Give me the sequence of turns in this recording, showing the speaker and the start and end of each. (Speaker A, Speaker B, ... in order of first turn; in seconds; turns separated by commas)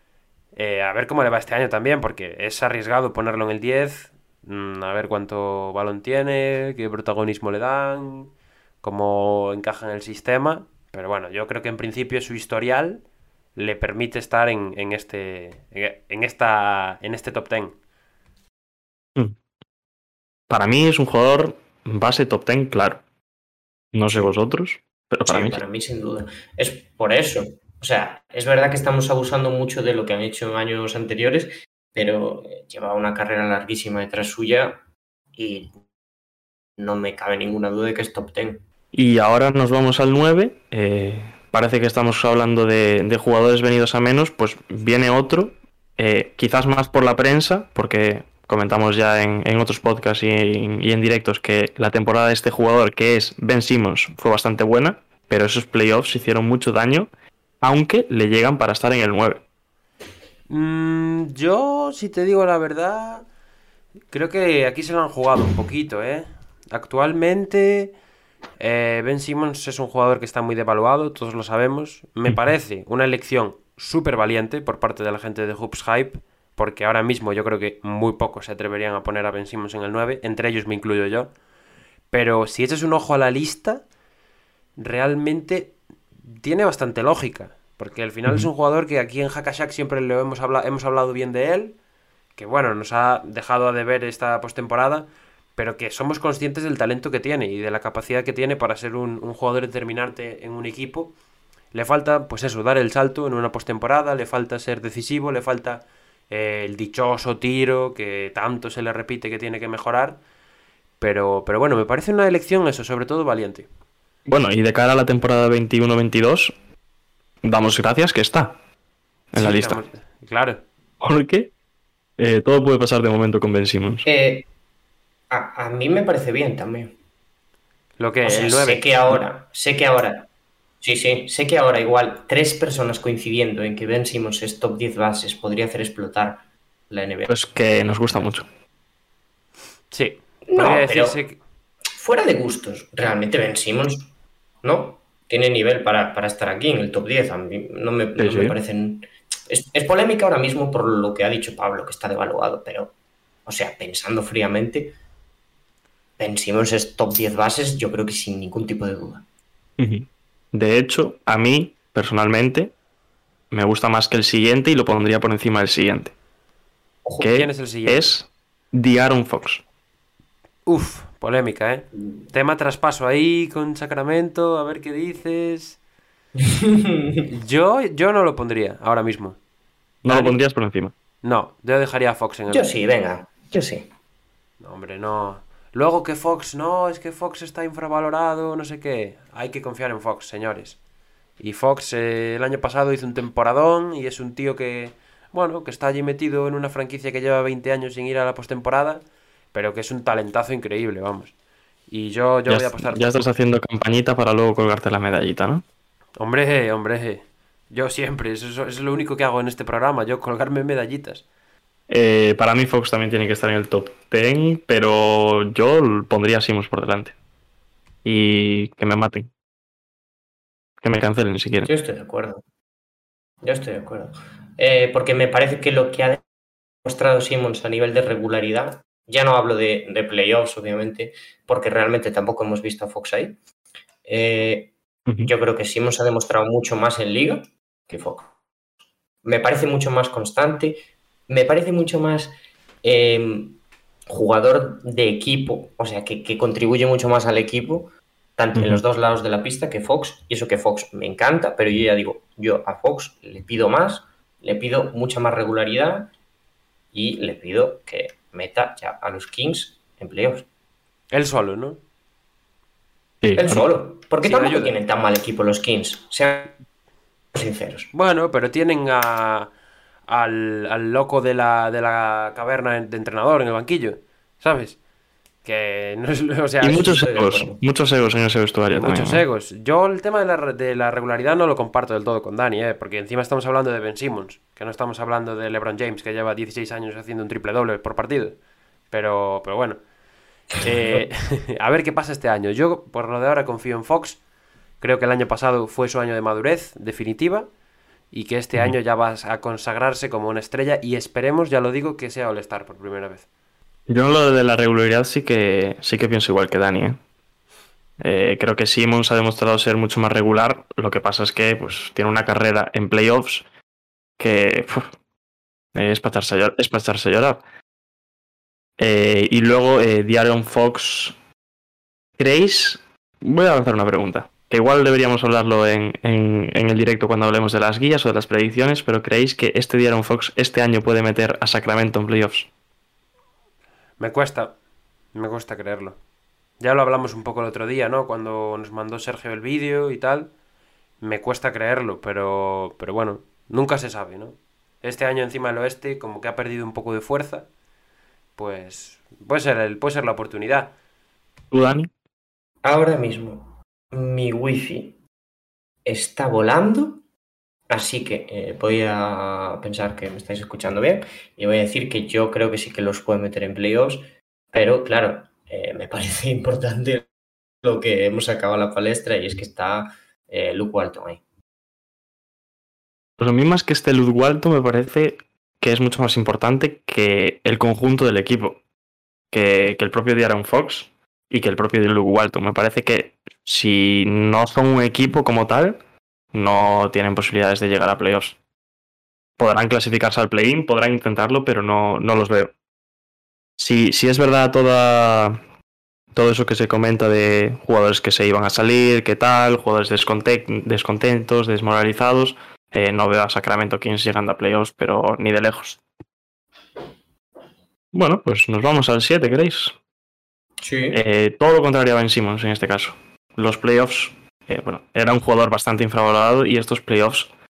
Speaker A: 0.6-13.0, Speaker A: 13.6-17.8, Speaker B: 20.5-23.0, Speaker B: 23.9-25.6, Speaker C: 25.3-34.8, Speaker C: 35.4-35.7, Speaker C: 36.8-38.6, Speaker B: 38.9-57.1, Speaker B: 57.6-59.4, Speaker A: 60.5-63.3, Speaker A: 64.1-67.9, Speaker A: 68.6-81.3, Speaker A: 82.1-83.8, Speaker A: 84.8-91.8, Speaker A: 92.4-101.1, Speaker A: 101.7-110.2, Speaker A: 111.0-113.7, Speaker B: 114.3-116.5, Speaker B: 117.4-118.6, Speaker B: 119.3-119.8, Speaker A: 119.3-120.6, Speaker B: 121.0-121.5, Speaker B: 122.2-124.1, Speaker C: 124.0-124.5, Speaker C: 125.3-126.9, Speaker A: 128.0-128.9, Speaker C: 128.2-130.3, Speaker C: 130.8-137.3, Speaker B: 137.3-138.5, Speaker A: 139.9-141.4, Speaker C: 140.5-141.2, Speaker C: 142.0-144.1, Speaker C: 144.6-152.9, Speaker B: 148.2-148.6, Speaker C: 153.5-155.0, Speaker C: 156.2-159.2, Speaker B: 159.8-162.7, Speaker B: 163.5-166.1, Speaker C: 167.1-167.3, Speaker B: 167.2-169.6, Speaker A: 167.2-168.1, Speaker A: 170.7-175.8, Speaker C: 176.5-177.2, Speaker A: 177.3-179.4, Speaker B: 180.0-180.9, Speaker A: 180.1-180.4, Speaker A: 181.2-182.7, Speaker C: 182.5-183.9, Speaker A: 184.6-190.8, Speaker A: 191.4-201.3, Speaker A: 201.9-203.2, Speaker B: 202.5-205.6, Speaker A: 206.2-211.2, Speaker B: 211.9-217.2, Speaker B: 218.1-219.3, Speaker B: 220.8-221.7, Speaker C: 221.6-222.4, Speaker C: 223.4-226.2, Speaker C: 226.8-233.4, Speaker C: 234.1-234.7, Speaker C: 235.2-238.3, Speaker C: 239.2-256.1, Speaker B: 248.6-248.8, Speaker C: 256.9-260.5, Speaker A: 261.1-261.8, Speaker B: 263.2-263.7, Speaker C: 263.4-266.6, Speaker A: 264.2-264.8, Speaker C: 267.3-267.9, Speaker A: 267.9-269.5, Speaker A: 270.1-274.8, Speaker A: 275.4-277.0, Speaker B: 276.6-279.2, Speaker C: 276.7-277.6, Speaker A: 278.7-288.4, Speaker A: 288.9-289.8, Speaker A: 290.6-294.2, Speaker A: 294.8-297.5, Speaker A: 298.1-303.3, Speaker B: 303.9-307.0, Speaker B: 308.0-313.5, Speaker B: 314.2-314.9, Speaker B: 315.8-317.4, Speaker B: 318.8-321.2, Speaker B: 322.2-332.5, Speaker A: 334.0-334.6, Speaker A: 335.1-336.0, Speaker A: 336.6-340.3, Speaker A: 341.0-347.5, Speaker A: 348.4-350.7, Speaker B: 351.5-351.9, Speaker C: 352.6-355.0, Speaker C: 355.9-357.0, Speaker C: 357.7-367.1, Speaker C: 367.6-371.2, Speaker B: 373.2-378.6, Speaker B: 379.3-385.8, Speaker B: 386.3-388.4, Speaker B: 389.4-392.5, Speaker B: 393.6-395.4, Speaker B: 396.1-405.8, Speaker B: 407.9-409.8, Speaker C: 410.6-411.0, Speaker B: 410.9-417.3